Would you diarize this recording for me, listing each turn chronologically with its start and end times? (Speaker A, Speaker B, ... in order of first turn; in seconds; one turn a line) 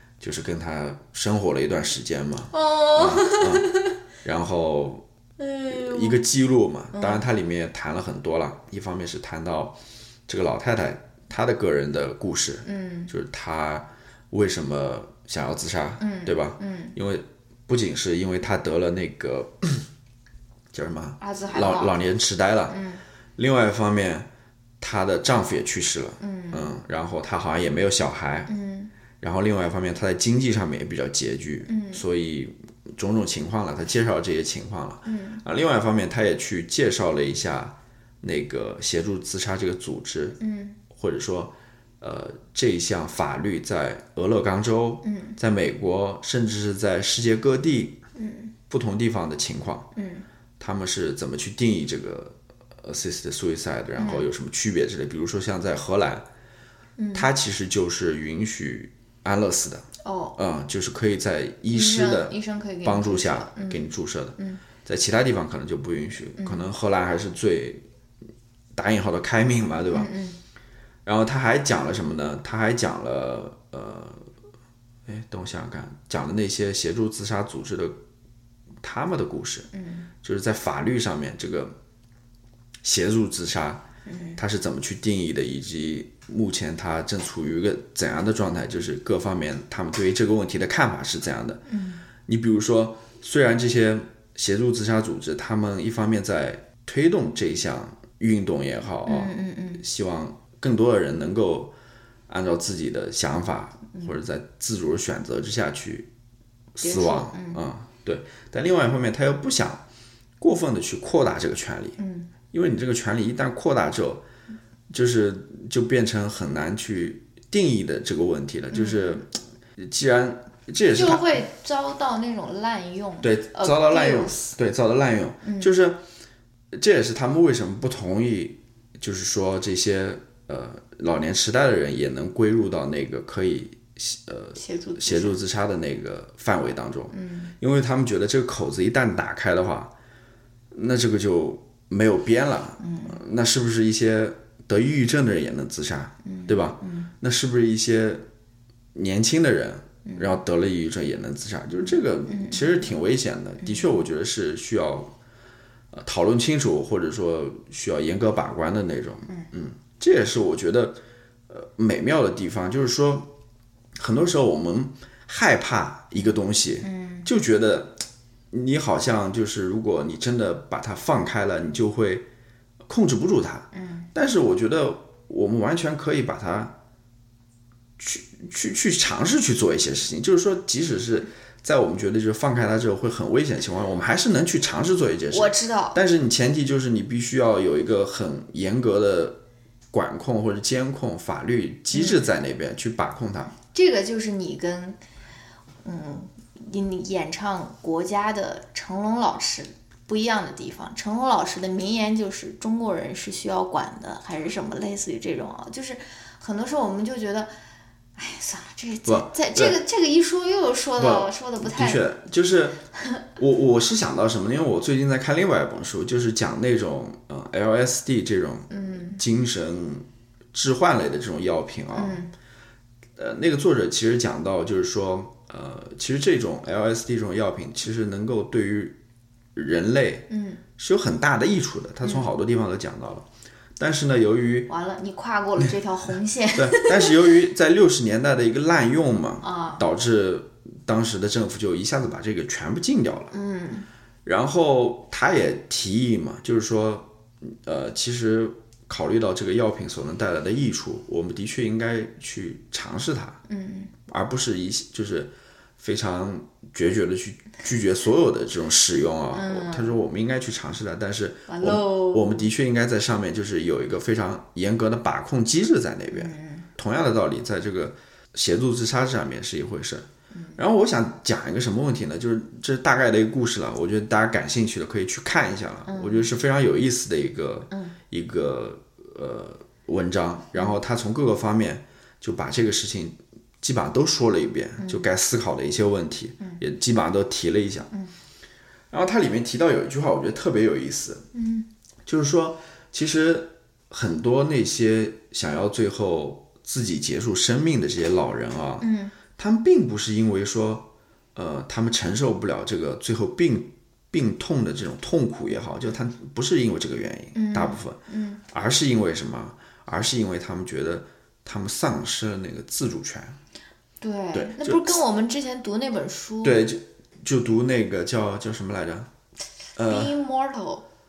Speaker A: 0.2-3.7
Speaker B: 2.5-4.0
Speaker A: 4.2-5.0
Speaker B: 5.4-6.2
Speaker A: 5.7-19.9
Speaker B: 6.9-7.2
Speaker B: 12.6-13.1
Speaker B: 16.0-16.9
Speaker A: 20.7-22.8
Speaker B: 21.2-22.0
Speaker B: 22.7-23.0
Speaker A: 23.4-24.3
Speaker A: 24.8-28.5
Speaker B: 26.2-26.7
Speaker B: 28.5-28.9
Speaker A: 29.2-40.4
Speaker B: 31.7-32.0
Speaker B: 35.0-35.4
Speaker B: 40.4-40.8
Speaker A: 40.9-48.0
Speaker B: 45.0-45.4
Speaker B: 48.1-48.5
Speaker A: 48.7-49.9
Speaker B: 49.9-50.2
Speaker A: 50.6-56.3
Speaker B: 54.0-54.3
Speaker B: 57.0-57.3
Speaker A: 57.1-67.8
Speaker B: 60.0-60.4
Speaker B: 61.7-64.6
Speaker B: 66.4-66.7
Speaker A: 68.7-70.1
Speaker B: 69.9-70.4
Speaker A: 71.0-74.3
Speaker A: 75.0-78.0
Speaker A: 78.8-79.7
Speaker B: 79.7-80.1
Speaker A: 80.2-81.8
Speaker A: 82.8-83.8
Speaker B: 84.0-84.4
Speaker A: 84.4-91.6
Speaker B: 91.7-92.0
Speaker A: 92.2-101.7
Speaker B: 99.0-99.8
Speaker A: 102.3-106.1
Speaker A: 106.8-109.8
Speaker B: 106.8-107.6
Speaker A: 110.4-112.0
Speaker B: 112.0-112.3
Speaker A: 112.5-114.2
Speaker A: 114.9-121.4
Speaker B: 118.7-119.2
Speaker B: 120.9-124.5
Speaker A: 123.2-126.0
Speaker B: 125.4-125.7
Speaker A: 126.7-139.9
Speaker B: 134.6-135.4
Speaker B: 137.1-137.5
Speaker A: 140.7-148.2
Speaker B: 142.8-143.2
Speaker B: 146.2-147.1
Speaker A: 148.9-155.1
Speaker B: 150.0-150.4
Speaker B: 151.8-152.9
Speaker A: 155.9-163.3
Speaker A: 164.0-172.3
Speaker B: 166.2-167.3
Speaker A: 172.8-176.8
Speaker B: 173.7-174.1
Speaker A: 178.0-193.5
Speaker B: 185.3-186.0
Speaker B: 191.9-192.2
Speaker B: 193.7-195.0
Speaker B: 195.8-207.5
Speaker B: 208.2-212.0
Speaker A: 209.0-209.8
Speaker A: 211.0-212.8
Speaker A: 213.3-222.2
Speaker B: 218.7-219.2
Speaker B: 221.9-222.3
Speaker A: 223.2-229.0
Speaker A: 229.5-233.2
Speaker B: 230.3-230.6
Speaker A: 233.8-234.7
Speaker B: 234.7-237.3
Speaker A: 236.5-243.3
Speaker B: 239.4-239.8
Speaker B: 243.3-243.9
Speaker A: 244.2-253.4
Speaker B: 253.5-253.9
Speaker A: 254.1-287.9
Speaker B: 259.3-259.9
Speaker B: 261.5-262.5
Speaker B: 266.1-266.7
Speaker B: 270.3-270.6
Speaker B: 275.9-276.3
Speaker B: 277.7-277.9
Speaker B: 284.8-285.1
Speaker A: 288.9-291.2
Speaker B: 291.3-291.7
Speaker A: 292.1-313.4
Speaker B: 298.8-299.1
Speaker B: 307.3-308.4
Speaker B: 314.0-316.6
Speaker A: 314.3-315.0
Speaker A: 316.4-319.1
Speaker A: 319.8-320.1
Speaker B: 319.9-320.8